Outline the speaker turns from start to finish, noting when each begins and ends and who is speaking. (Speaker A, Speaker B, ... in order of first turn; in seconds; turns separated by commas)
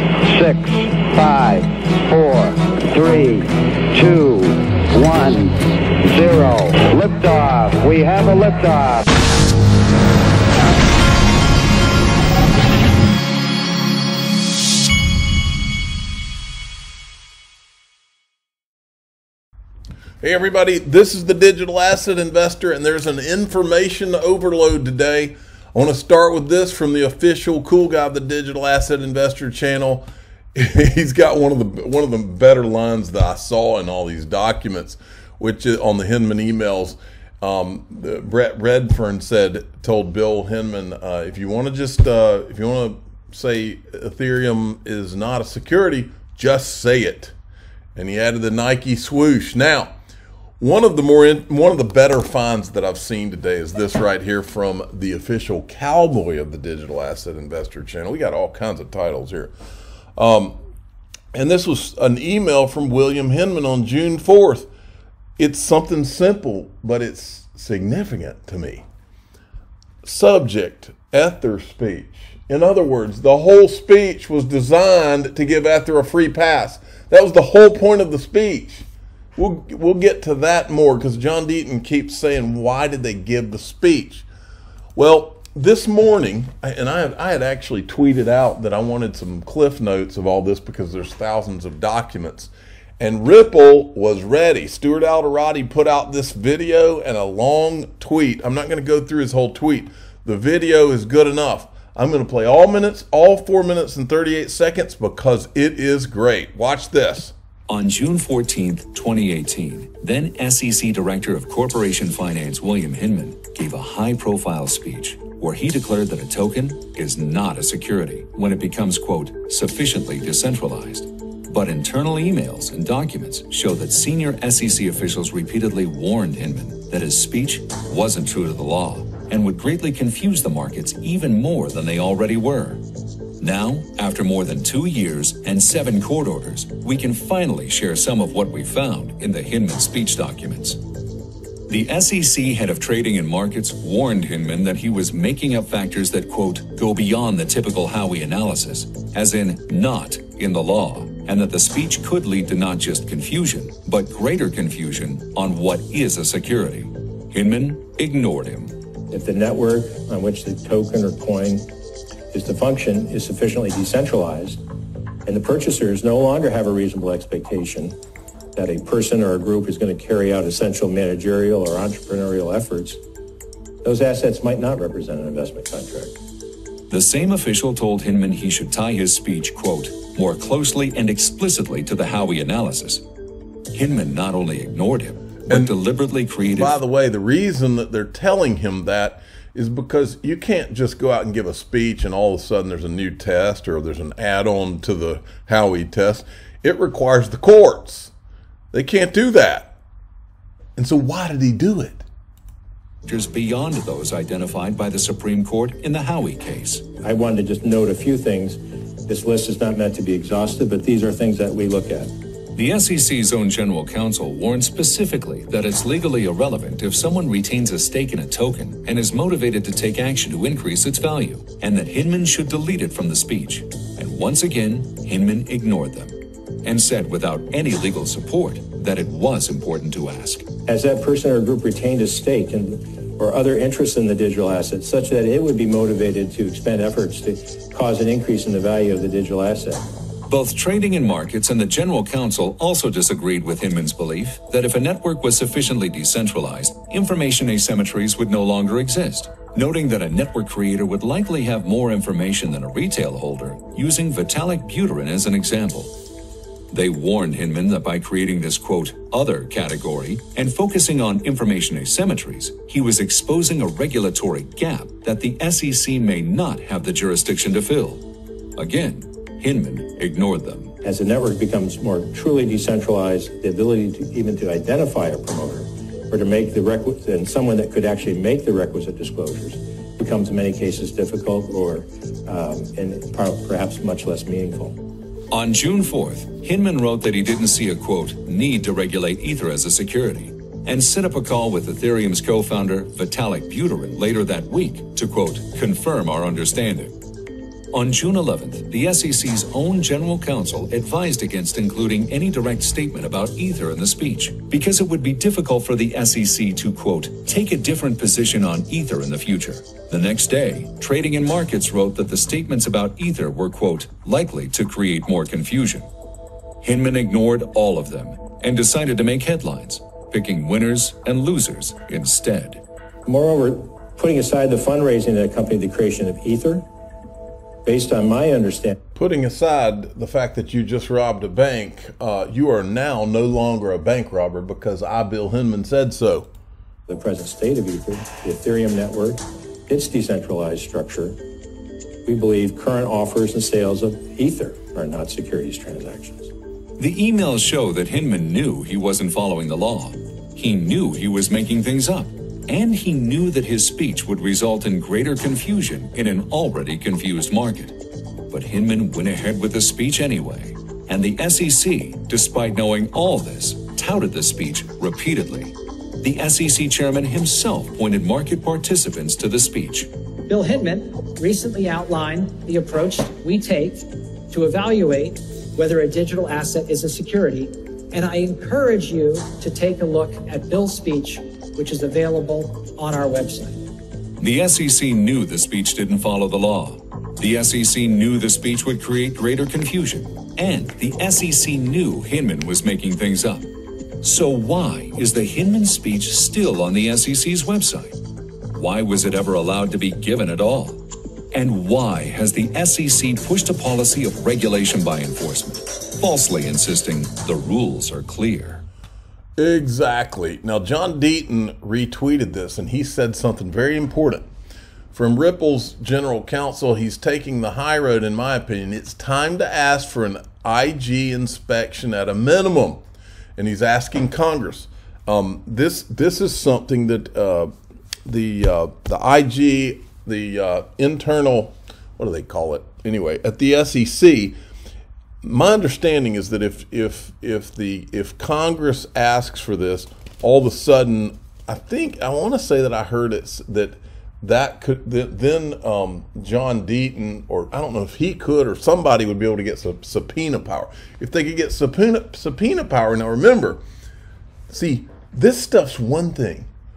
Speaker A: 0.3-9.0, Speaker B: 20.2-47.3, Speaker B: 47.9-49.9, Speaker B: 50.6-59.5, Speaker B: 60.2-60.6, Speaker B: 61.3-64.7, Speaker B: 65.4-68.8, Speaker B: 70.0-84.2, Speaker B: 85.0-107.3, Speaker C: 107.7-132.8, Speaker C: 133.4-140.8, Speaker C: 141.7-158.7, Speaker D: 159.1-161.7, Speaker D: 162.3-164.6, Speaker D: 165.2-167.9, Speaker D: 168.5-173.0, Speaker D: 173.8-176.1, Speaker C: 176.9-183.0, Speaker C: 183.7-186.8, Speaker B: 185.5-185.7, Speaker B: 186.5-198.1, Speaker B: 198.7-199.8, Speaker B: 200.8-202.1, Speaker C: 203.0-206.8, Speaker D: 207.0-212.1, Speaker C: 212.5-230.5, Speaker D: 230.7-239.8, Speaker C: 240.3-255.9, Speaker C: 256.7-268.0, Speaker C: 268.6-270.7, Speaker D: 270.8-284.8, Speaker C: 285.3-296.9, Speaker C: 297.7-315.9, Speaker C: 316.6-322.6, Speaker D: 323.1-326.6, Speaker D: 327.6-328.8, Speaker B: 328.9-336.3, Speaker D: 336.9-341.2, Speaker D: 342.1-346.3, Speaker C: 346.8-369.9, Speaker E: 370.3-383.6, Speaker C: 384.2-393.4, Speaker C: 394.0-398.0, Speaker C: 398.5-400.8, Speaker C: 401.3-408.6, Speaker B: 409.4-414.2, Speaker B: 414.9-422.8, Speaker B: 423.4-427.5, Speaker B: 428.1-434.4, Speaker B: 435.2-453.6, Speaker B: 454.5-456.5